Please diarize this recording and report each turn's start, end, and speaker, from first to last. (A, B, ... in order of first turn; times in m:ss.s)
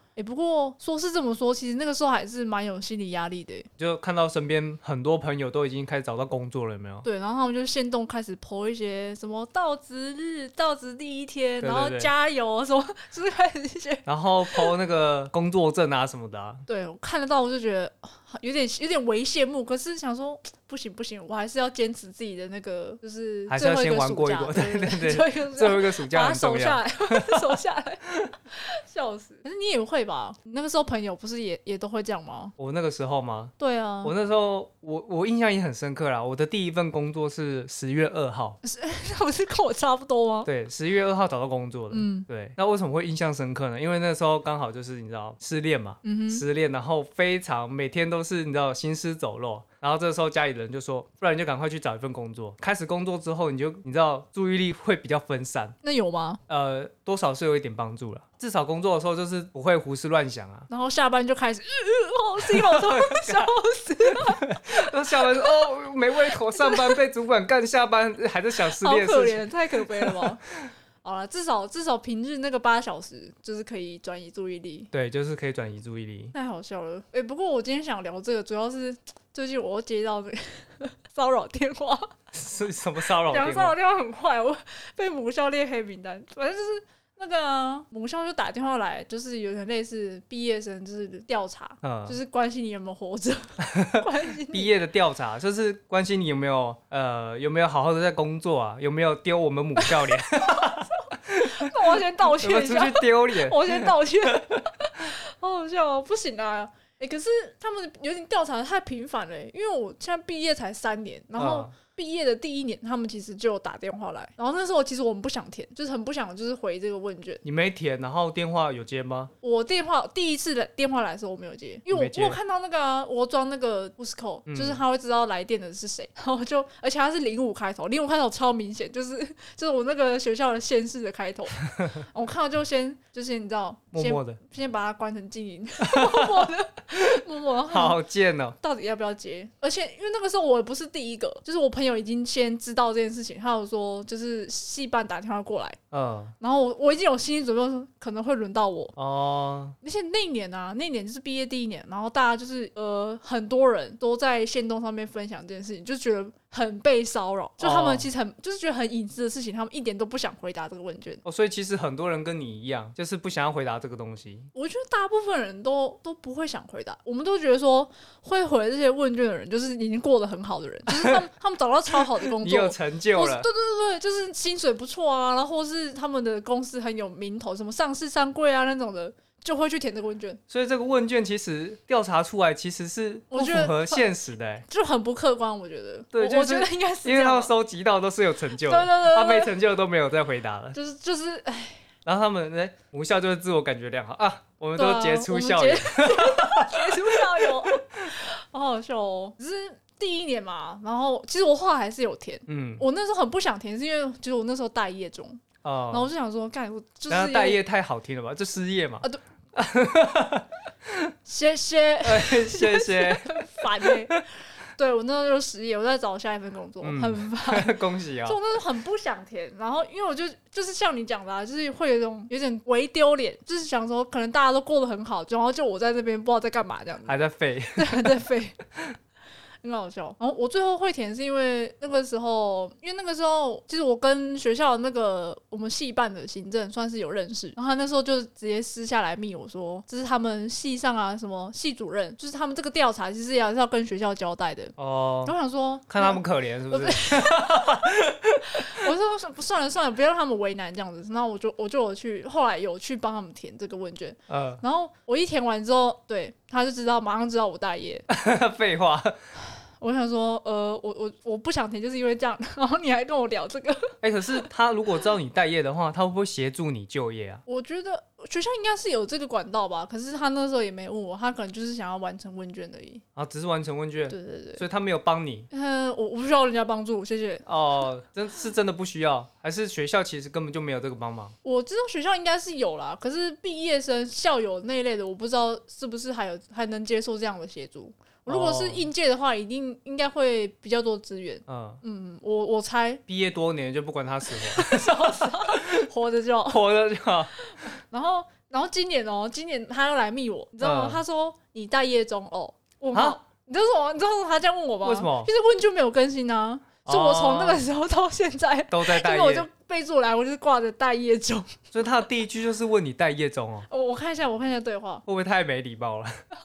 0:00.2-0:03.7 A
0:03.8-0:07.1 B
0:07.0-0:14.7 A
0:11.6-0:12.1 B
0:14.0-0:16.6 B
0:16.7-0:32.5 A
0:23.5-0:27.6 B
0:32.6-0:38.6 B
0:33.6-0:34.1 A
0:38.6-0:40.5 A
0:40.4-0:55.8 B
0:41.9-0:42.3 A
0:46.0-0:46.4 A
0:55.8-0:56.4 A
0:56.5-1:00.7 B
1:00.7-1:05.6 A
1:02.4-1:03.5 B
1:04.1-1:10.7 B
1:06.3-1:07.0 A
1:08.7-1:10.4 A
1:11.0-1:14.9 A
1:14.9-1:16.3 B
1:16.3-1:22.1 A
1:22.3-1:23.7 B
1:23.3-1:34.7 A
1:31.8-1:32.2 B
1:33.6-1:45.1 B
1:39.8-1:57.4 A
1:51.4-1:51.7 B
1:57.4-1:59.3 B
1:59.4-2:18.0 A
2:01.9-2:02.4 B
2:04.5-2:04.8 B
2:13.9-2:14.4 B
2:15.8-2:17.2 B
2:17.7-2:18.6 B
2:18.6-2:25.8 A
2:25.9-2:26.3 B
2:26.4-2:28.9 A
2:29.0-2:29.8 B
2:29.8-2:41.2 A
2:37.6-2:38.1 B
2:41.2-2:44.5 B
2:44.5-3:00.4 A
2:50.9-2:51.2 B
2:52.4-2:53.5 B
3:00.5-3:04.6 B
3:03.3-3:04.1 A
3:04.7-3:07.5 A
3:06.1-3:10.8 B
3:08.6-3:09.5 A
3:10.7-3:11.8 A
3:12.0-3:18.0 B
3:14.8-3:27.6 A
3:22.5-3:22.8 B
3:25.6-3:26.1 B
3:27.1-3:31.1 B
3:31.2-3:37.7 A
3:32.0-3:34.2 B
3:36.8-3:38.4 B
3:38.2-3:47.2 A
3:47.0-3:48.2 B
3:47.8-3:48.6 A
3:49.6-4:07.9 A
4:04.8-4:05.3 B
4:05.9-4:08.9 B
4:08.5-4:18.0 A
4:14.3-4:14.6 B
4:18.1-4:19.1 B
4:19.8-4:24.0 A
4:24.0-4:27.4 B
4:27.5-4:33.0 A
4:33.2-4:35.5 B
4:34.1-4:34.6 A
4:35.5-4:37.4 A
4:37.4-4:41.3 B
4:41.4-4:53.0 A
4:48.3-4:48.9 B
4:51.5-4:51.8 B
4:53.1-4:55.9 B
4:54.3-4:56.6 A
4:56.5-4:57.3 B
4:57.6-5:11.6 A
5:00.6-5:01.0 B
5:04.8-5:05.3 B
5:06.8-5:07.6 B
5:08.7-5:09.5 B
5:11.7-5:13.7 B
5:13.7-5:15.0 A
5:15.0-5:16.1 B